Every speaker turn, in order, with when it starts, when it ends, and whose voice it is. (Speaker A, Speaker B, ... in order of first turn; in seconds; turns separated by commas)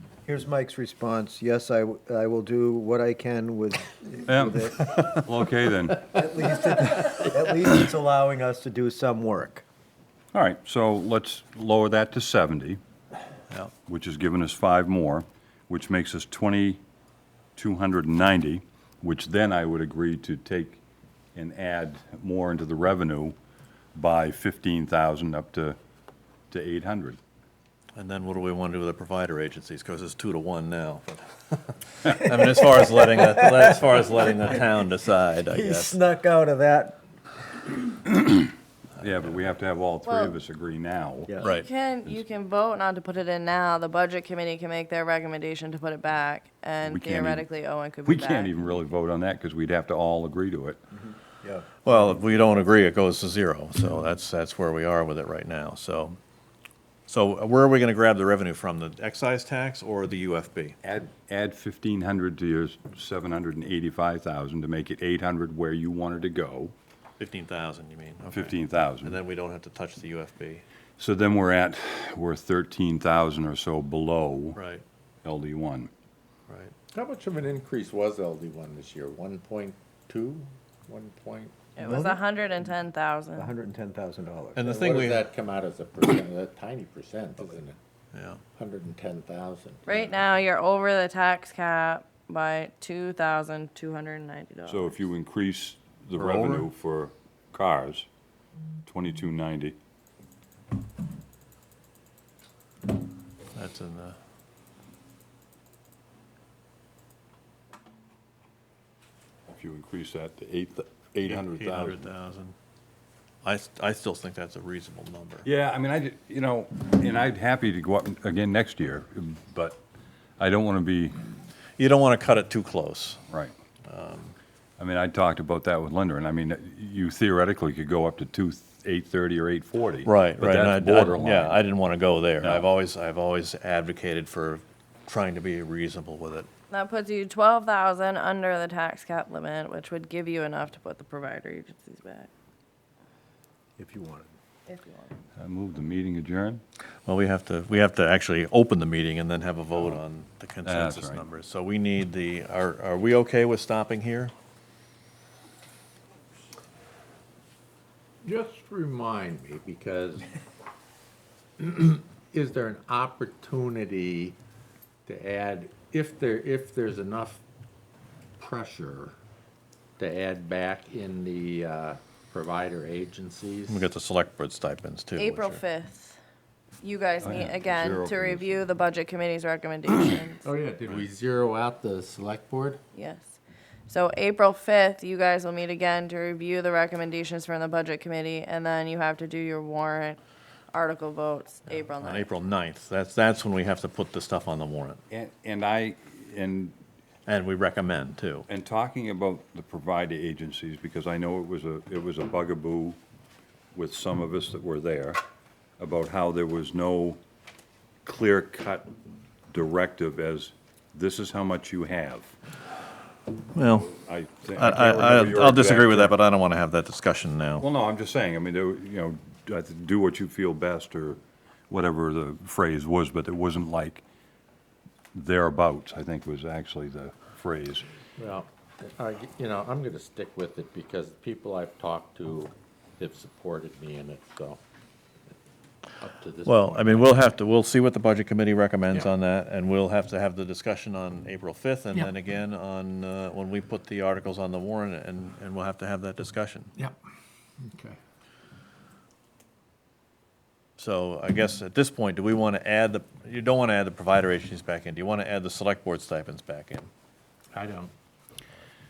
Speaker A: 0.3-4.8, Speaker B: 4.3-6.1, Speaker A: 6.0-9.6, Speaker B: 10.3-12.8, Speaker B: 13.9-16.8, Speaker B: 17.6-20.8, Speaker B: 21.4-23.4, Speaker B: 23.9-25.8, Speaker B: 26.5-27.2, Speaker C: 28.0-36.0, Speaker A: 35.5-37.0, Speaker B: 38.1-41.4, Speaker D: 40.0-40.4, Speaker A: 41.3-41.5, Speaker C: 41.4-41.7, Speaker D: 41.4-48.5, Speaker B: 46.8-47.5, Speaker B: 48.1-50.8, Speaker A: 51.4-52.1, Speaker C: 51.8-56.2, Speaker C: 57.1-60.8, Speaker B: 60.8-66.7, Speaker C: 67.2-70.6, Speaker B: 68.3-69.2, Speaker B: 71.0-74.6, Speaker C: 74.5-74.8, Speaker B: 75.2-75.9, Speaker C: 76.5-76.7, Speaker E: 76.9-81.5, Speaker D: 81.8-83.5, Speaker A: 81.8-82.2, Speaker A: 83.4-85.0, Speaker C: 84.6-85.2, Speaker E: 84.7-87.8, Speaker C: 88.1-88.4, Speaker E: 88.5-90.2, Speaker D: 89.9-95.0, Speaker B: 94.7-98.1, Speaker C: 96.2-96.7, Speaker B: 98.9-99.8, Speaker C: 103.5-104.2, Speaker B: 109.5-112.1, Speaker C: 111.3-112.5, Speaker C: 113.4-115.5, Speaker B: 115.4-119.8, Speaker B: 120.4-121.2, Speaker C: 121.8-123.2, Speaker B: 123.3-123.5, Speaker C: 123.9-124.3, Speaker B: 124.8-131.6, Speaker C: 130.1-136.5, Speaker B: 132.4-132.7, Speaker D: 136.7-142.3, Speaker A: 143.8-144.3, Speaker D: 144.7-145.1, Speaker B: 145.4-146.6, Speaker C: 147.1-154.3, Speaker B: 150.6-151.2, Speaker E: 158.2-160.3, Speaker E: 161.6-164.4, Speaker E: 165.1-167.4, Speaker E: 168.4-169.1, Speaker E: 170.0-173.8, Speaker C: 173.7-175.6, Speaker D: 175.2-176.2, Speaker D: 176.8-180.5, Speaker B: 177.2-178.7, Speaker E: 180.4-182.8, Speaker D: 182.9-183.4, Speaker D: 183.9-190.2, Speaker D: 190.7-192.3, Speaker C: 191.7-195.0, Speaker B: 195.1-196.8, Speaker C: 197.3-198.5, Speaker B: 198.5-203.0, Speaker B: 203.7-205.2, Speaker B: 205.8-207.2, Speaker B: 208.1-208.9, Speaker B: 209.5-212.3, Speaker C: 213.6-213.9, Speaker B: 213.9-216.1, Speaker C: 214.6-217.7, Speaker B: 217.6-224.0, Speaker B: 225.1-227.8, Speaker E: 228.2-234.6, Speaker E: 236.0-237.1, Speaker C: 236.4-246.7, Speaker E: 247.6-248.0, Speaker C: 250.8-256.9, Speaker E: 257.5-257.9